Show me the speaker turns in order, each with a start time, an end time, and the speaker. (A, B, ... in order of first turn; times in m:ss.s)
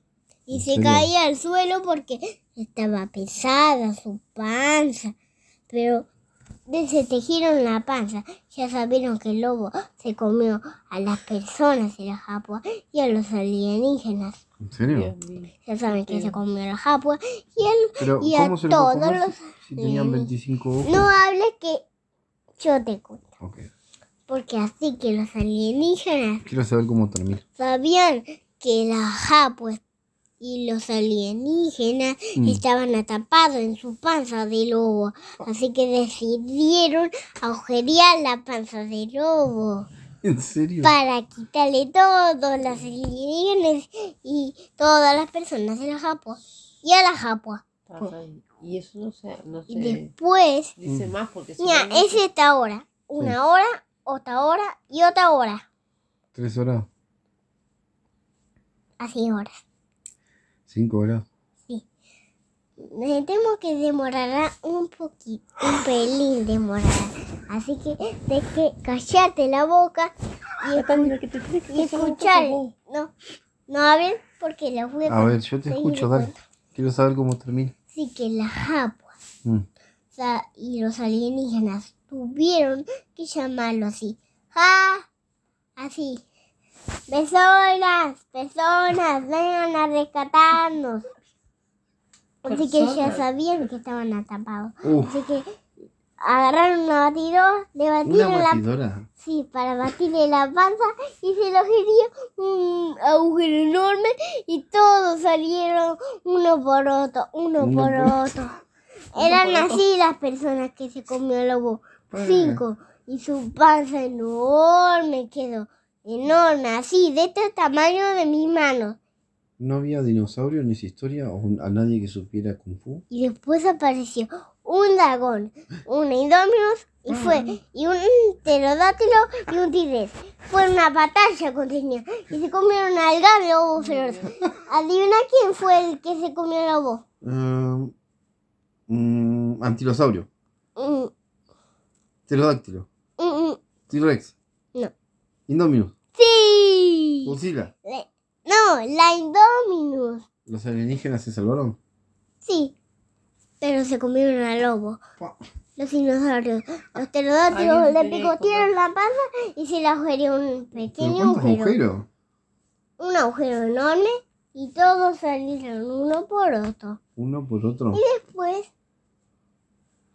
0:00.5-0:05.1 A
0:00.5-0:01.1 B
0:05.7-0:06.1 A
0:06.7-0:14.4 A
0:14.6-0:15.1 B
0:14.9-0:16.4 C
0:15.7-0:20.3 A
0:18.0-0:21.1 B
0:20.8-0:21.8 A
0:22.6-0:23.2 A
0:23.4-0:23.7 B
0:24.3-0:26.5 A
0:26.5-0:27.4 B
0:27.6-0:29.8 A
0:30.4-0:39.9 A
0:40.2-0:40.9 B
0:40.8-0:47.6 A
0:47.9-0:50.1 C
0:49.7-0:50.7 A
0:50.8-0:52.2 C
0:50.8-0:51.1 B
0:51.6-0:55.6 A
0:56.4-0:56.9 B
0:59.0-0:59.6 A
1:00.7-1:01.3 B
1:02.8-1:11.1 A
1:10.7-1:12.7 C
1:11.7-1:13.1 A
1:13.7-1:16.4 A
1:15.1-1:17.7 B
1:17.9-1:19.1 A
1:20.1-1:25.1 A
1:25.8-1:26.2 A
1:27.1-1:31.1 A
1:32.4-1:33.3 C
1:32.4-1:35.5 A
1:34.8-1:35.2 B
1:36.2-1:38.6 A
1:38.0-1:39.1 B
1:39.2-1:48.5 A
1:47.6-1:48.2 B
1:49.1-1:59.0 A
1:49.2-1:49.8 C
1:52.1-1:52.6 B
1:59.6-2:03.0 B
2:03.1-2:17.0 A
2:07.1-2:07.5 C
2:13.8-2:14.2 C
2:17.2-2:17.9 B
2:18.9-2:20.3 B
2:20.8-2:21.1 A
2:22.3-2:22.9 B
2:23.2-2:23.6 A
2:23.9-2:24.3 B
2:25.5-2:25.9 B
2:26.2-2:27.3 A
2:27.2-2:27.7 B
2:27.8-2:30.3 A
2:30.5-2:31.8 B
2:32.4-2:32.8 A
2:33.6-2:35.0 A
2:35.8-2:41.8 A
2:37.5-2:38.7 C
2:41.0-2:42.1 B
2:43.0-2:47.0 A
2:47.2-2:48.0 B
2:47.9-2:48.7 A